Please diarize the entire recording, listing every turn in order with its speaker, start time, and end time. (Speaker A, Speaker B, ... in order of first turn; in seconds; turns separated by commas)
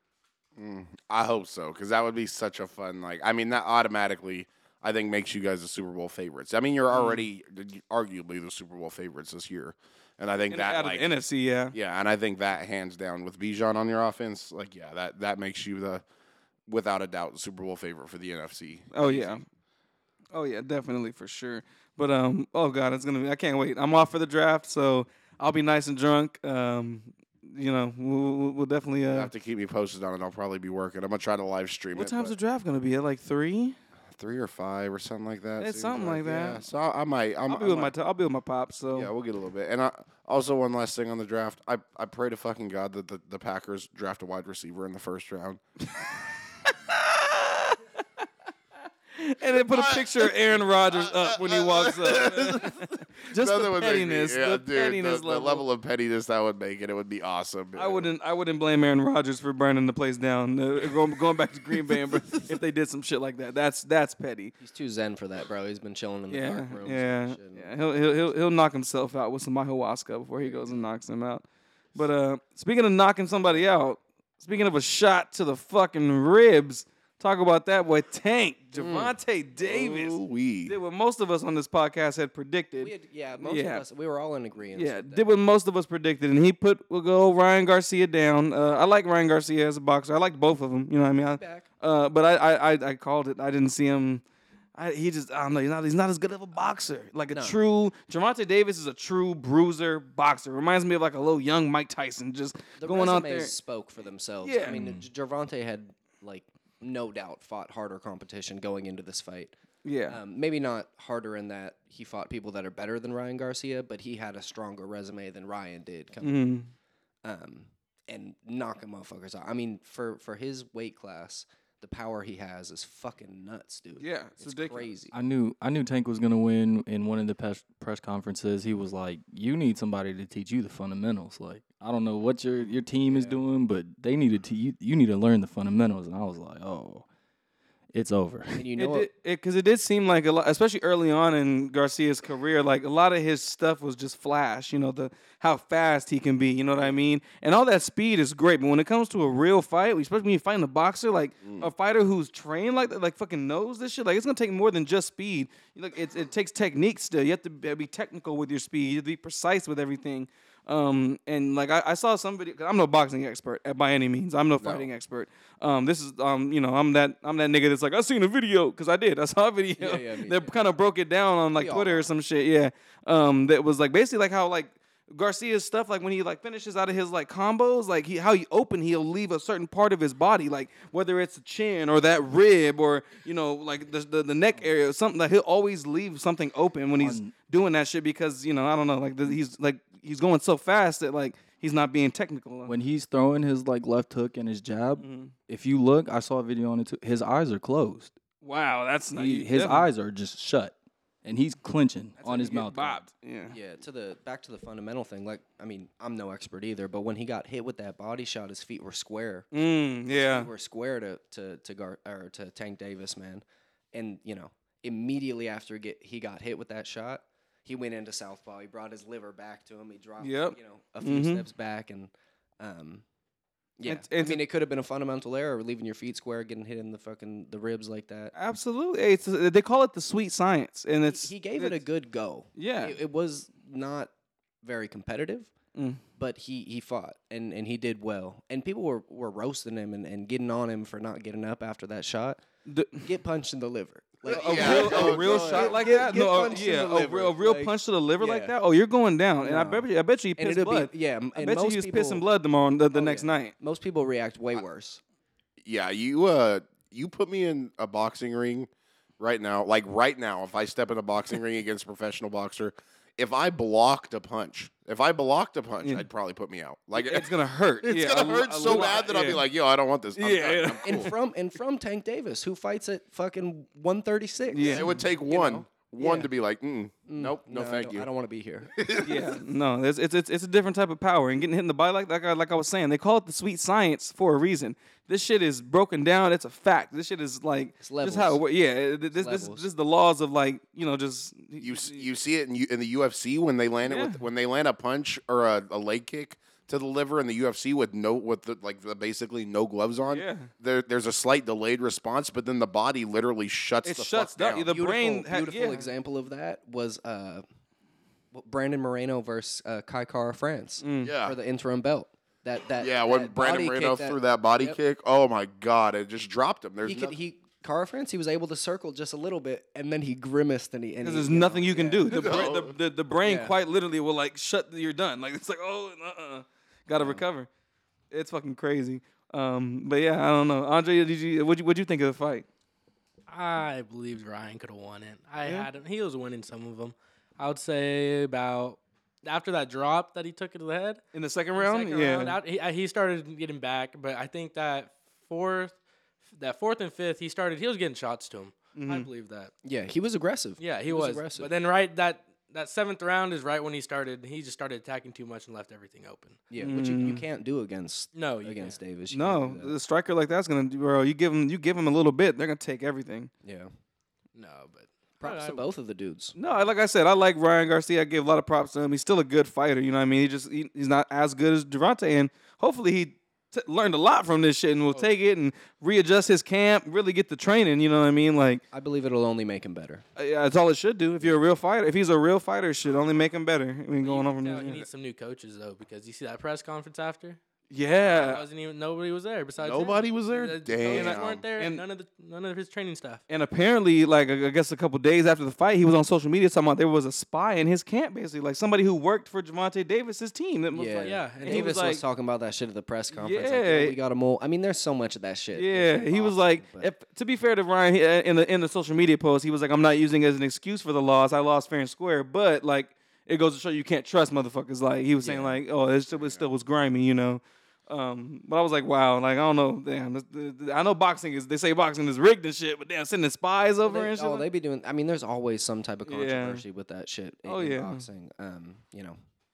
Speaker A: 0.6-11.1, Speaker B: 6.9-7.2, Speaker B: 10.5-11.8, Speaker A: 11.7-16.0, Speaker A: 16.7-19.4, Speaker B: 18.9-19.4, Speaker B: 20.3-29.3, Speaker A: 29.1-32.4, Speaker B: 31.9-33.8, Speaker A: 34.2-37.9, Speaker B: 35.6-36.6, Speaker B: 37.5-39.1, Speaker A: 38.9-45.6, Speaker B: 46.6-47.8, Speaker B: 49.1-55.6, Speaker A: 49.7-58.1, Speaker B: 57.8-64.5, Speaker C: 64.6-67.7, Speaker B: 66.3-83.8, Speaker C: 70.4-70.8, Speaker A: 78.8-80.8, Speaker C: 82.8-85.2, Speaker B: 84.7-94.2, Speaker C: 91.4-91.7, Speaker B: 94.8-103.5, Speaker C: 97.3-97.6, Speaker C: 102.8-109.5, Speaker B: 104.4-104.8, Speaker D: 104.7-105.0, Speaker B: 109.8-110.2, Speaker C: 110.1-116.5, Speaker B: 116.2-116.7, Speaker C: 117.2-125.1, Speaker B: 124.0-124.9, Speaker D: 125.1-137.1, Speaker C: 133.1-133.4, Speaker D: 137.9-138.7, Speaker C: 138.5-139.1, Speaker B: 138.8-192.7, Speaker A: 151.4-151.7, Speaker C: 169.8-170.5, Speaker C: 171.6-172.1, Speaker D: 187.0-187.3, Speaker D: 192.7-198.1, Speaker B: 195.0-195.3, Speaker B: 198.4-199.9, Speaker D: 199.2-203.1, Speaker C: 202.2-202.7, Speaker B: 202.6-203.6, Speaker C: 203.5-209.5, Speaker B: 209.5-210.5, Speaker C: 210.2-223.1, Speaker B: 220.2-221.4, Speaker C: 223.8-228.3, Speaker B: 223.9-224.4, Speaker B: 228.3-231.8, Speaker C: 231.1-234.1, Speaker B: 232.6-233.0, Speaker C: 234.6-235.5, Speaker B: 235.8-236.0, Speaker C: 236.2-242.4, Speaker B: 242.7-243.1, Speaker C: 243.0-248.5, Speaker A: 244.2-245.9, Speaker B: 244.3-253.5, Speaker C: 249.4-249.8, Speaker C: 250.4-252.2, Speaker C: 252.9-255.0, Speaker A: 255.6-271.1, Speaker B: 266.9-269.5, Speaker B: 270.2-271.1, Speaker C: 270.9-276.3, Speaker B: 274.5-275.0, Speaker A: 274.6-278.1, Speaker C: 277.1-278.7, Speaker A: 278.8-279.4, Speaker B: 279.0-292.1, Speaker C: 287.8-288.4, Speaker C: 289.1-289.7, Speaker A: 291.6-304.7, Speaker B: 293.9-294.2, Speaker B: 300.1-300.5, Speaker B: 303.8-305.9, Speaker C: 304.7-307.4, Speaker C: 308.3-314.8, Speaker B: 310.8-311.1, Speaker A: 311.0-311.4, Speaker A: 312.8-317.2, Speaker C: 316.8-322.2, Speaker B: 321.0-327.5, Speaker A: 322.1-322.7, Speaker C: 323.2-323.6, Speaker C: 327.0-327.2, Speaker B: 328.1-332.5, Speaker E: 333.3-341.0, Speaker B: 341.1-342.4, Speaker E: 341.6-345.8, Speaker E: 346.3-349.5, Speaker B: 348.8-349.1, Speaker C: 349.6-351.5, Speaker E: 350.6-356.8, Speaker C: 356.5-359.7, Speaker B: 356.6-357.2, Speaker E: 358.1-358.8, Speaker B: 359.1-363.3, Speaker C: 363.4-363.7, Speaker E: 364.4-365.6, Speaker C: 365.2-366.4, Speaker B: 366.4-378.6, Speaker C: 378.7-380.0, Speaker B: 380.2-384.9, Speaker E: 384.0-387.4, Speaker B: 387.7-388.4, Speaker E: 388.0-393.2, Speaker A: 389.6-391.4, Speaker B: 390.9-391.8, Speaker B: 393.3-402.0, Speaker C: 400.7-406.9, Speaker E: 401.0-401.8, Speaker B: 403.1-404.0, Speaker B: 405.5-424.5, Speaker C: 415.2-415.6, Speaker A: 416.1-416.5, Speaker C: 423.9-429.2, Speaker B: 426.1-426.6, Speaker B: 427.5-428.1